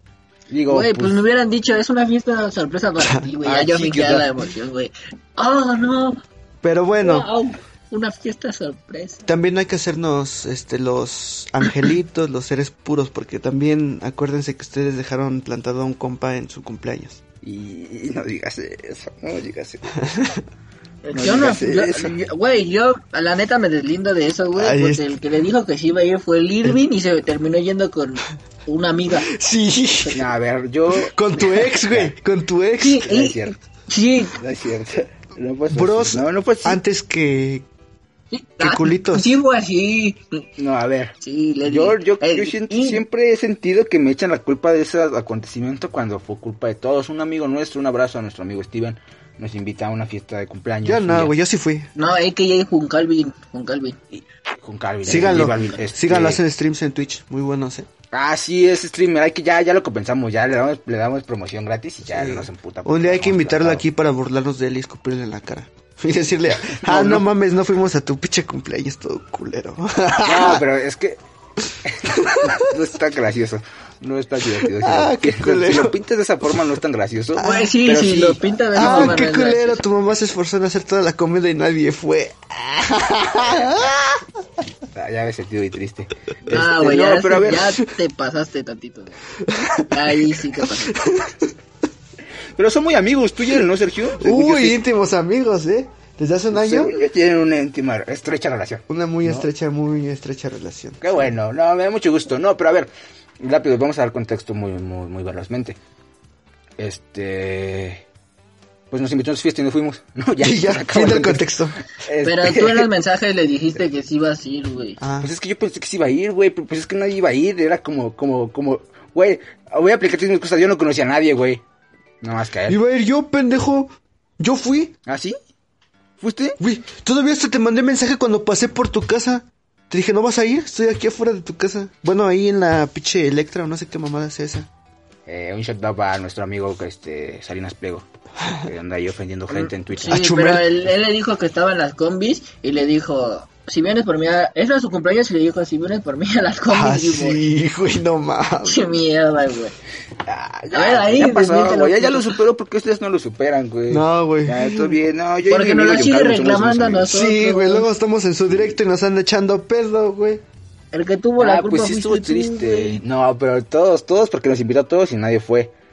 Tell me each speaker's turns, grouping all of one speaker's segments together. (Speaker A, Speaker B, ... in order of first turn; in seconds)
Speaker A: 0.5-1.2, 3.4-4.3, 17.4-19.9, 21.1-22.1, 30.1-32.1, 33.0-33.5, 34.3-36.8, 40.6-51.3, 54.1-56.4, 58.1-63.8, 66.8-67.2, 70.2-71.2, 71.8-79.2, 83.5-83.8, 84.9-87.7, 92.6-94.8, 96.5-99.5, 101.0-105.8, 106.8-108.0, 108.9-112.9, 115.2-121.6, 122.2-122.8, 125.0-125.3, 126.2-126.6, 135.3-140.3, 150.2-157.1, 161.4-165.7
Speaker B: 0.7-6.2, 7.0-9.3, 21.0-29.3, 32.8-34.4, 38.3-40.4, 41.2-43.0, 52.0-54.0, 77.4-79.8, 86.4-89.2, 89.9-91.0, 112.2-115.0, 139.5-147.4, 148.6-149.7, 150.7-152.4, 155.5-157.9, 160.9-163.0
Speaker C: 3.0-3.3, 6.6-7.3, 9.3-17.2, 20.0-20.4, 24.5-25.1, 29.1-30.2, 30.9-33.1, 35.7-37.6, 38.6-39.4, 50.8-51.9, 55.0-57.9, 62.1-70.6, 72.0-72.7, 74.6-76.0, 77.4-77.7, 78.7-84.2, 89.4-91.5, 94.2-96.9, 98.9-101.2, 110.4-111.8, 115.0-115.3, 122.7-124.9, 126.6-134.7, 140.0-140.7, 146.7-148.8, 153.9-155.0, 157.1-160.4